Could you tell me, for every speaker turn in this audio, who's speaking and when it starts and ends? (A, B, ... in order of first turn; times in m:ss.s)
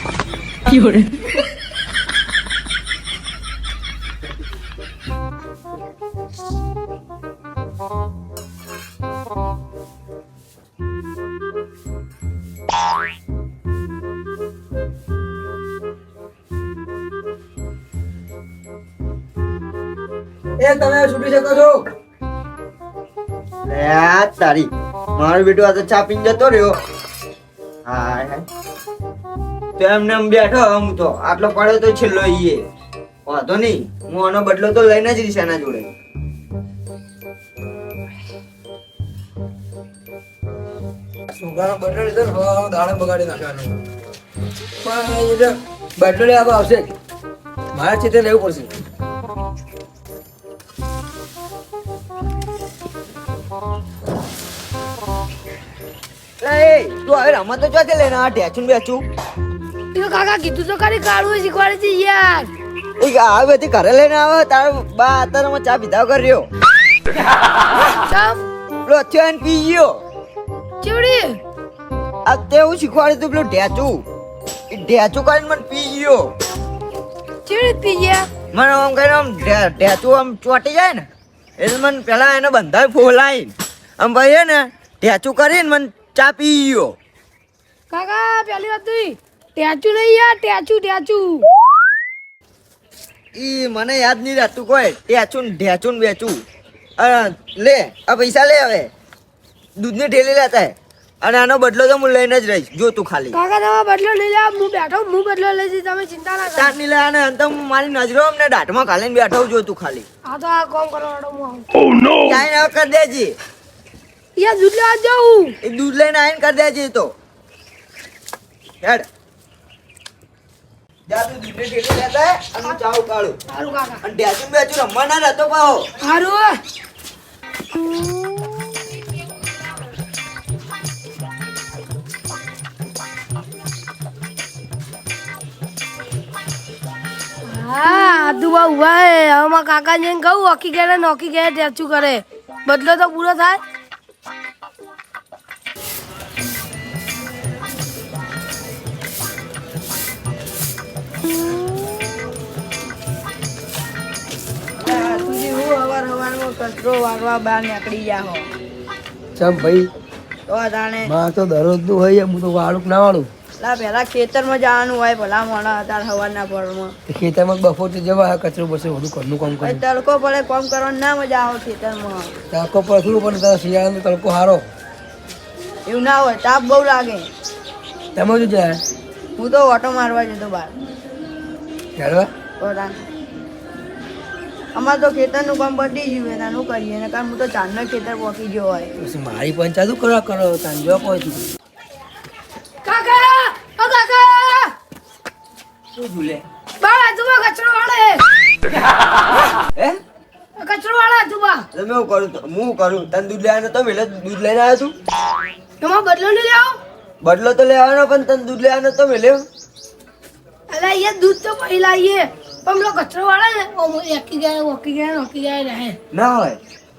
0:00.7-0:01.1 A
0:20.6-0:21.8 B
0:23.6-0:26.8 A
0:27.8-0:28.4 A
0:29.8-0:32.6 A
0:33.2-0:35.9 A
0:41.3-0:43.8 B
0:44.8-0:46.9 B
0:47.7-0:48.7 B
0:56.4-0:59.0 A
0:59.9-1:02.5 C
1:03.0-1:06.5 A
1:08.1-1:08.4 C
1:08.8-1:10.0 A
1:10.8-1:11.4 C
1:12.2-1:14.0 A
1:14.7-1:16.3 A
1:17.4-1:18.3 C
1:18.5-1:21.0 A
1:21.6-1:26.9 A
1:27.9-1:31.4 C
1:33.4-1:36.4 A
1:37.0-1:38.9 A
1:39.8-1:43.4 A
1:43.3-1:46.7 C
1:46.5-1:50.0 A
1:50.3-1:51.7 C
1:52.1-1:53.4 A
1:54.4-1:55.5 C
1:55.6-1:57.1 A
2:01.1-2:03.4 A
2:03.5-2:04.0 C
2:04.0-2:05.9 A
2:06.0-2:06.6 C
2:17.5-2:23.6 C
2:34.8-2:38.5 D
2:39.4-2:39.9 B
2:40.5-2:41.1 D
2:41.0-2:43.3 B
2:43.6-2:46.9 D
2:47.1-2:49.8 B
2:49.6-2:52.3 D
2:52.5-2:54.6 B
2:55.9-2:57.3 D
2:58.1-2:58.8 B
2:59.4-3:00.7 D
3:02.0-3:02.3 B
3:02.6-3:03.0 D
3:04.7-3:08.9 D
3:09.0-3:11.5 B
3:12.8-3:14.7 C
3:16.0-3:16.4 A
3:16.8-3:18.2 C
3:20.6-3:21.6 C
3:21.7-3:24.9 A
3:25.8-3:26.8 C
3:27.2-3:29.4 A
3:30.7-3:36.0 C
3:36.1-3:36.6 A